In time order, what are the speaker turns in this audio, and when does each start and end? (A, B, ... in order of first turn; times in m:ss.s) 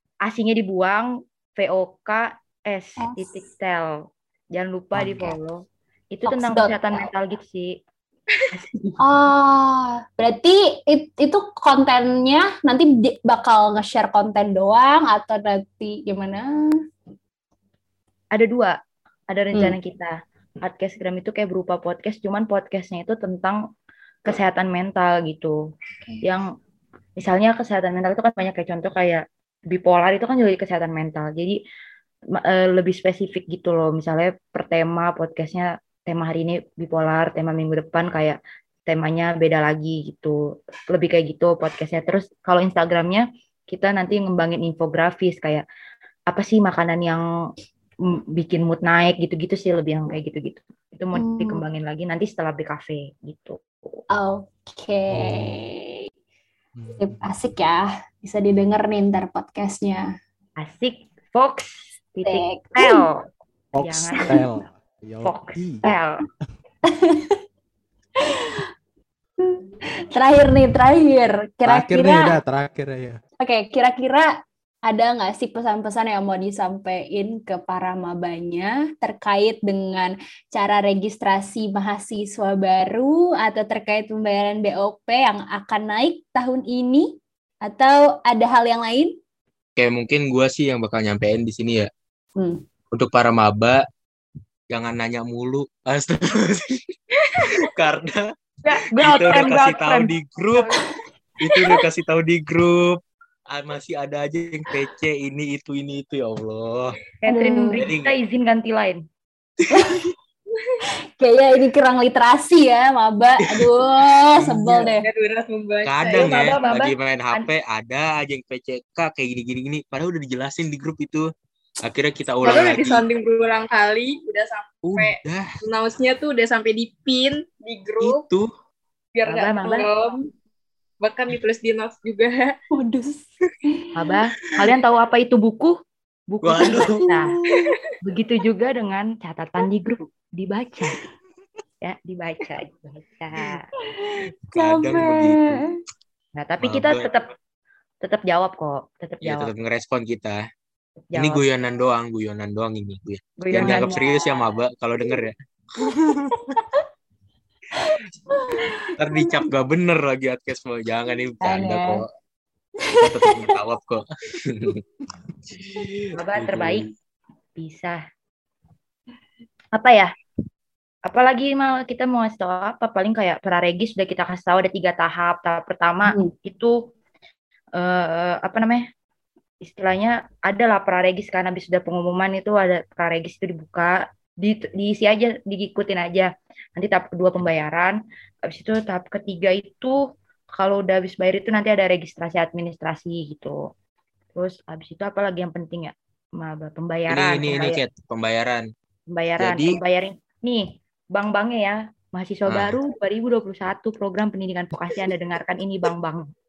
0:00.2-0:03.9 A
0:03.0-0:03.3 B
0:04.5-0:07.8 A
0:05.0-0:05.3 C
0:06.3-0:07.1 B
0:08.5-0:09.0 A
0:09.0-0:16.5 B
0:18.3-0:18.8 A
0:19.3-0:23.6 A
0:24.3-0:25.6 A
0:26.2-0:26.5 A
0:27.2-0:31.6 A
0:32.4-0:40.4 A
0:40.9-0:45.6 A
0:46.3-0:47.2 A
0:48.1-0:53.6 A
0:51.2-0:51.6 B
0:54.1-0:56.0 B
0:55.1-0:55.6 C
0:56.8-0:57.2 C
0:57.0-1:00.1 B
1:00.6-1:03.2 A
1:02.3-1:03.0 B
1:03.7-1:05.8 C
1:03.8-1:04.5 A
1:05.2-1:06.2 A
1:06.9-1:07.4 B
1:08.3-1:08.6 B
1:09.4-1:12.4 B
1:11.7-1:13.2 C
1:13.4-1:14.3 B
1:14.9-1:27.1 B
1:27.6-1:29.1 B
1:29.8-1:31.9 D
1:32.4-1:32.6 B
1:32.9-1:33.8 D
1:34.7-1:38.3 D
1:38.6-1:40.1 A
1:39.0-1:40.8 D
1:41.4-1:43.0 D
1:43.5-1:47.0 D
1:47.2-1:49.0 A
1:47.3-1:47.8 B
1:47.8-1:48.2 D
1:49.7-1:50.0 B
1:51.2-1:55.1 B
1:53.4-1:53.7 D
1:54.5-1:56.7 E
1:55.8-2:01.3 D
1:56.1-1:57.5 A
2:01.8-2:03.0 D
2:02.4-2:08.2 E
2:04.8-2:05.6 D
2:08.0-2:08.5 D
2:09.1-2:10.2 E
2:09.3-2:09.8 A
2:11.0-2:12.6 E
2:12.7-2:13.9 B
2:14.0-2:15.8 A
2:16.3-2:17.3 A
2:16.4-2:17.6 D
2:17.6-2:18.0 E
2:18.0-2:21.0 A
2:21.8-2:23.7 A
2:23.9-2:25.7 B
2:24.5-2:25.6 D
2:26.4-2:27.3 A
2:26.6-2:27.0 D
2:28.0-2:29.5 A
2:29.2-2:30.4 D
2:31.1-2:31.4 A
2:31.2-2:36.4 D
2:33.4-2:34.2 A
2:33.6-2:34.2 B
2:36.5-2:36.8 B
2:37.8-2:39.0 B
2:39.0-2:42.1 D
2:41.4-2:42.0 B
2:42.8-2:43.5 B
2:43.0-2:44.8 D
2:45.5-2:46.9 D
2:46.1-2:46.9 A
2:47.6-2:48.0 A
2:49.7-2:50.1 A
2:51.1-2:56.7 A
2:56.1-2:56.3 B
2:57.8-2:58.8 A
2:59.6-3:10.0 A
3:10.5-3:13.7 A
3:14.4-3:17.8 A
3:17.1-3:18.7 D
3:19.1-3:26.3 A
3:19.4-3:19.8 D
3:22.5-3:22.8 D